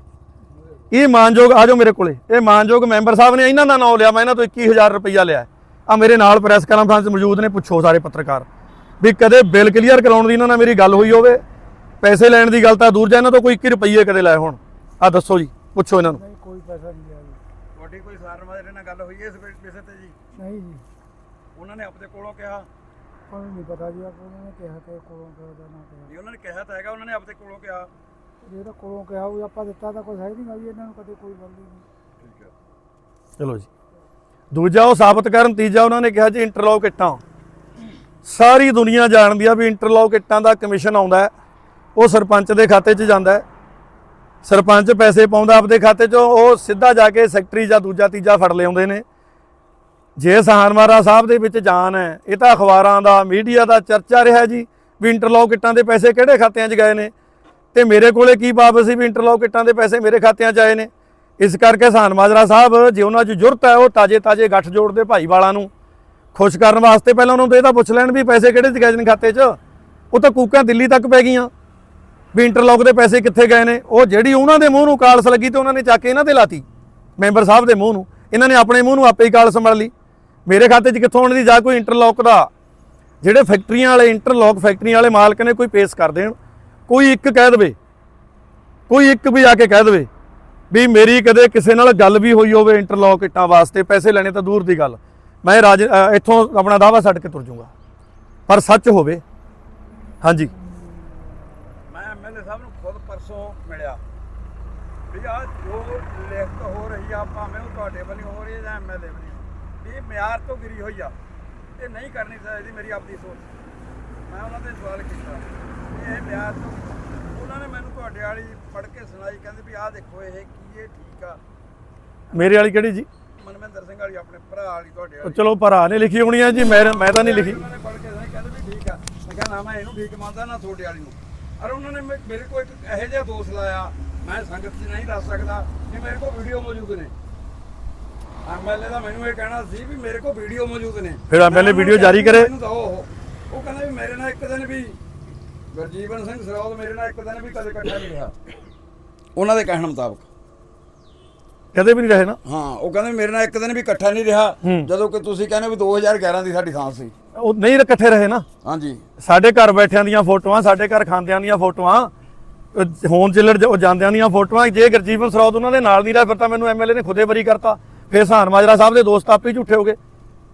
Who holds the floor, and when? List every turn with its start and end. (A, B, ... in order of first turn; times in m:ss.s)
0:00.9-0:08.5 A
0:09.0-0:11.4 A
0:12.0-0:16.2 A
0:16.1-0:17.4 B
0:17.7-0:20.2 C
0:20.4-0:20.8 B
0:21.6-0:22.7 C
0:23.3-0:26.1 B
0:26.1-0:27.9 C
0:28.5-0:31.8 B
0:32.2-0:32.5 C
0:33.4-0:33.7 A
0:34.5-0:37.2 A
0:38.2-0:41.3 A
0:42.0-0:43.4 A
0:44.4-0:49.0 A
0:50.2-0:57.1 A
0:57.7-1:05.7 A
1:06.3-1:09.6 A
1:10.1-1:11.5 A
1:12.3-1:16.6 A
1:17.2-1:19.9 A
1:20.5-1:22.5 A
1:23.2-1:26.4 A
1:26.9-1:27.8 A
1:28.9-1:30.1 A
1:30.7-1:37.7 A
1:38.5-1:39.2 A
1:40.2-1:40.5 A
1:41.9-1:44.0 C
1:45.1-1:51.2 C
1:51.8-1:53.4 C
1:54.3-2:01.4 C
2:02.3-2:03.1 A
2:03.4-2:05.4 C
2:05.2-2:07.6 A
2:06.6-2:17.1 C
2:18.4-2:25.0 C
2:21.3-2:22.5 A
2:25.7-2:28.4 C
2:29.4-2:30.3 C
2:31.7-2:32.4 A
2:32.4-2:37.1 C
2:34.6-2:34.9 A
2:37.4-2:38.4 A
2:38.6-2:39.0 C
2:39.2-2:42.1 A
2:42.7-2:50.0 A